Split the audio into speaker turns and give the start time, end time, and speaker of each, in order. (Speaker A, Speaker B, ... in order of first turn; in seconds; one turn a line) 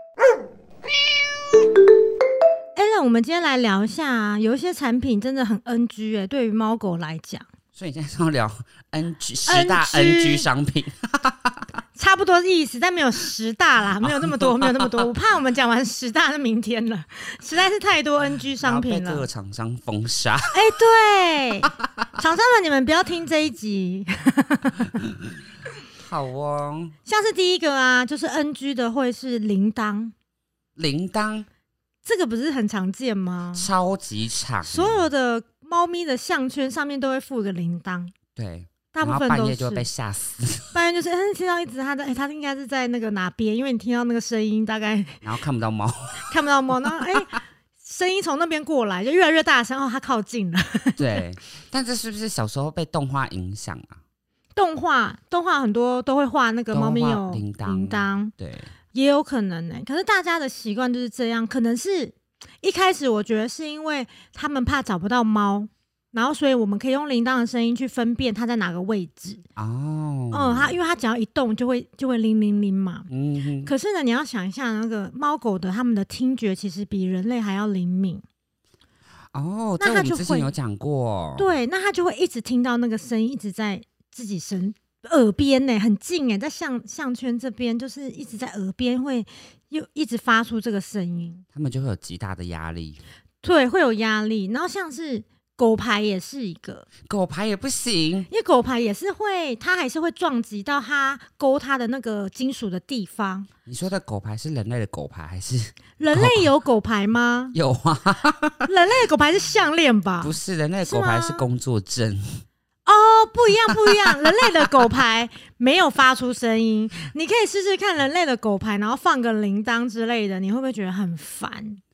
Speaker A: 2.8-7.5
Speaker B: 7.7-11.6
Speaker A: 9.5-10.5
Speaker A: 12.0-19.3
Speaker B: 14.0-15.1
Speaker B: 18.6-20.5
Speaker A: 20.5-24.9
Speaker B: 25.0-25.3
Speaker B: 26.0-27.0
Speaker A: 27.1-30.1
Speaker B: 30.8-31.5
Speaker A: 32.0-33.7
Speaker B: 33.5-35.0
Speaker A: 34.7-38.1
Speaker B: 38.4-40.7
Speaker A: 38.9-39.9
Speaker A: 40.7-45.2
Speaker B: 45.2-46.3
Speaker A: 46.3-51.2
Speaker B: 51.0-54.0
Speaker A: 54.6-58.3
Speaker B: 56.7-58.7
Speaker A: 58.9-69.4
Speaker B: 69.6-70.8
Speaker A: 70.3-73.1
Speaker B: 73.1-73.7
Speaker A: 73.7-78.2
Speaker B: 79.3-81.5
Speaker A: 79.8-80.5
Speaker A: 81.4-91.5
Speaker B: 91.5-93.0
Speaker A: 93.4-96.9
Speaker B: 97.1-98.3
Speaker A: 98.3-103.5
Speaker B: 103.7-106.5
Speaker A: 106.0-107.5
Speaker B: 107.5-108.7
Speaker A: 108.7-110.3
Speaker B: 110.2-112.4
Speaker A: 110.8-111.5
Speaker A: 112.9-121.8